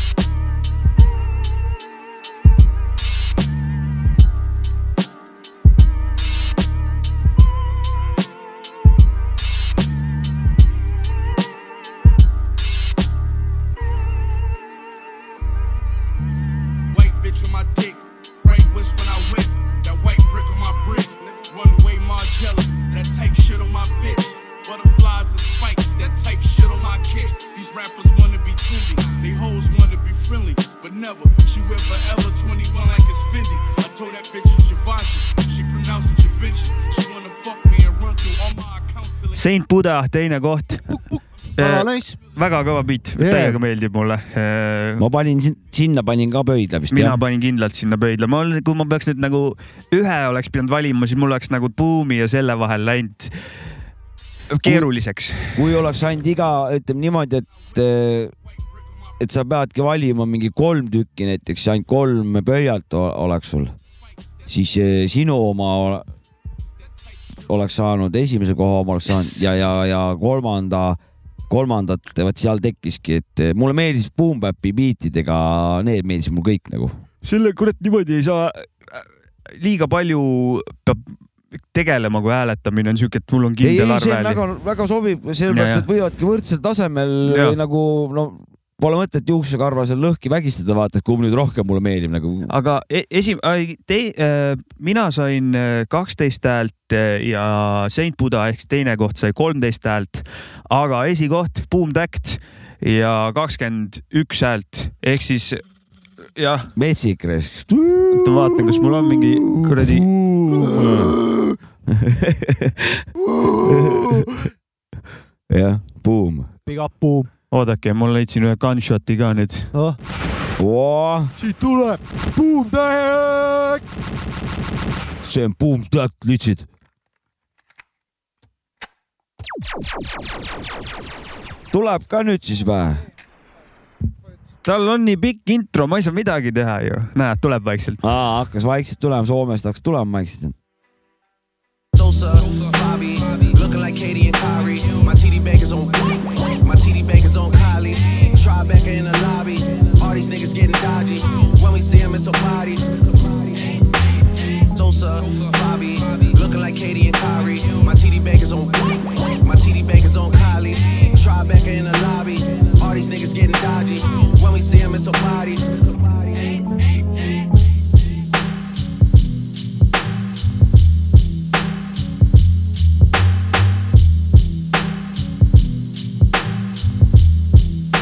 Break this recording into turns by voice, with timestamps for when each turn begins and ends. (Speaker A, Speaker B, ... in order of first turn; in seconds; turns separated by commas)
Speaker A: 16.9-39.4, Speaker B: 39.3-40.9, Speaker C: 40.9-42.2, Speaker B: 41.6-45.0, Speaker C: 43.2-43.6, Speaker D: 45.0-47.2, Speaker B: 46.9-53.3, Speaker B: 54.5-55.7, Speaker D: 54.6-54.9, Speaker D: 55.5-58.3, Speaker A: 58.6-59.1, Speaker D: 59.2-63.7, Speaker D: 64.5-66.1, Speaker A: 66.8-67.1, Speaker D: 67.5-71.0, Speaker D: 71.5-77.0, Speaker B: 77.2-81.1, Speaker B: 81.7-84.4, Speaker D: 83.6-92.5, Speaker B: 85.5-85.8, Speaker B: 87.3-87.6, Speaker B: 92.5-105.6, Speaker B: 106.4-106.7, Speaker D: 106.8-111.2, Speaker B: 108.1-110.1, Speaker D: 111.8-113.0, Speaker C: 113.4-114.3, Speaker D: 113.6-114.3, Speaker D: 115.5-116.5, Speaker C: 116.7-117.3, Speaker B: 117.5-119.7, Speaker D: 120.6-121.3, Speaker C: 121.4-123.8, Speaker D: 125.2-126.7, Speaker D: 131.7-133.0, Speaker B: 134.6-138.0, Speaker D: 138.0-140.5, Speaker E: 141.9-153.9, Speaker E: 154.7-166.8